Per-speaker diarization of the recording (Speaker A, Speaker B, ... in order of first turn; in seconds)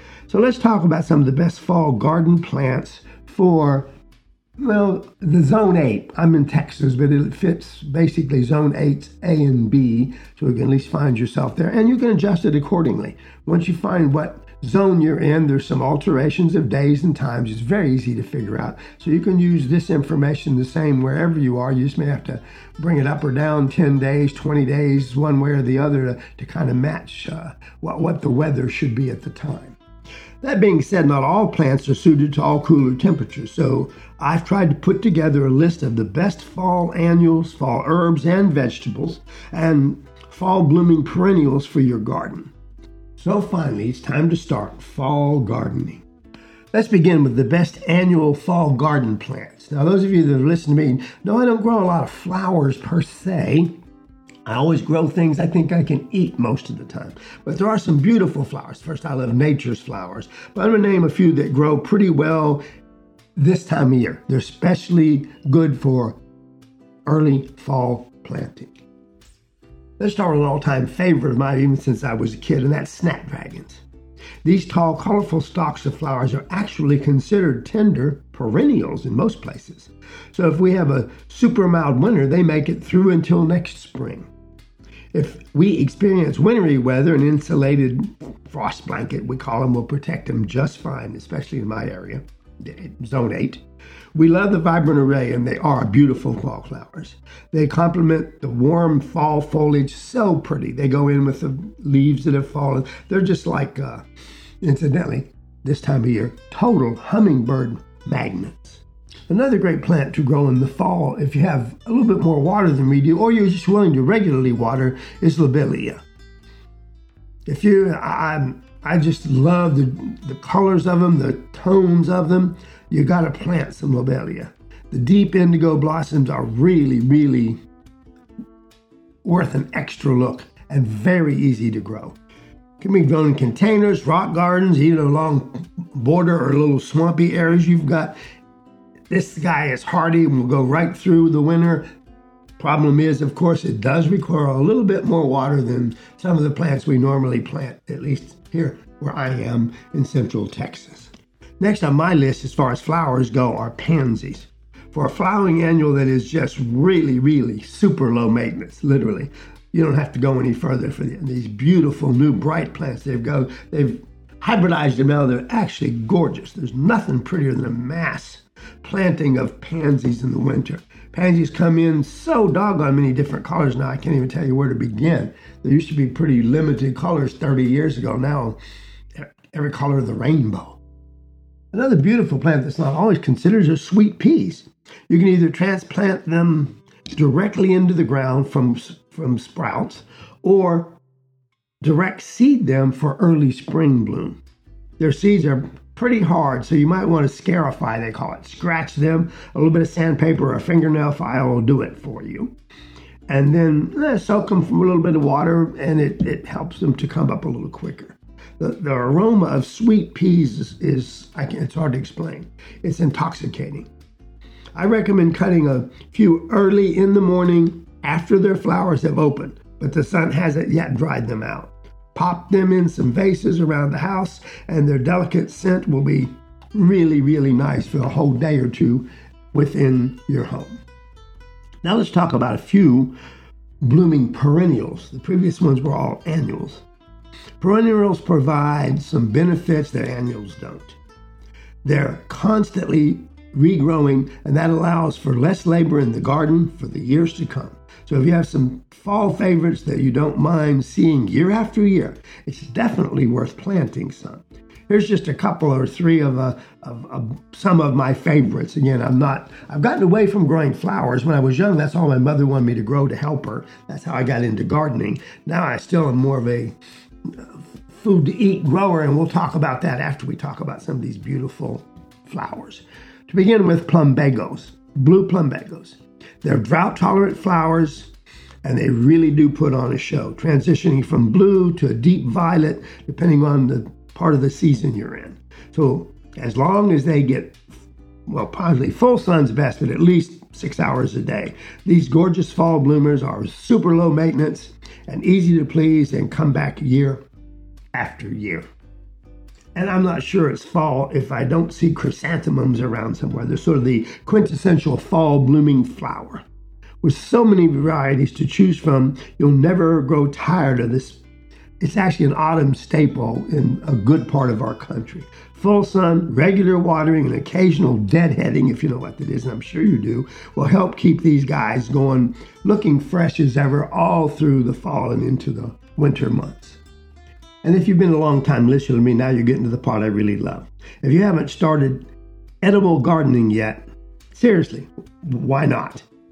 Speaker A: 0.3-3.9, 4.6-29.8, 30.4-42.5, 43.2-46.0, 46.7-53.8, 54.5-62.6, 63.4-66.2, 67.1-68.8, 70.0-73.8, 74.4-84.3, 85.1-93.6, 94.2-104.0, 104.6-116.0, 117.5-127.6, 129.2-132.2, 132.8-138.2, 139.1-141.9, 142.6-178.6, 179.2-180.8, 181.7-191.0, 191.8-194.4, 195.0-202.6, 203.3-213.9, 214.8-230.8, 231.8-233.2, 233.8-236.8, 237.6-241.0, 241.8-266.7, 267.3-278.1, 278.6-297.2, 297.9-298.7, 299.8-306.4, 307.0-311.2, 311.8-326.8, 327.6-332.1, 332.6-336.1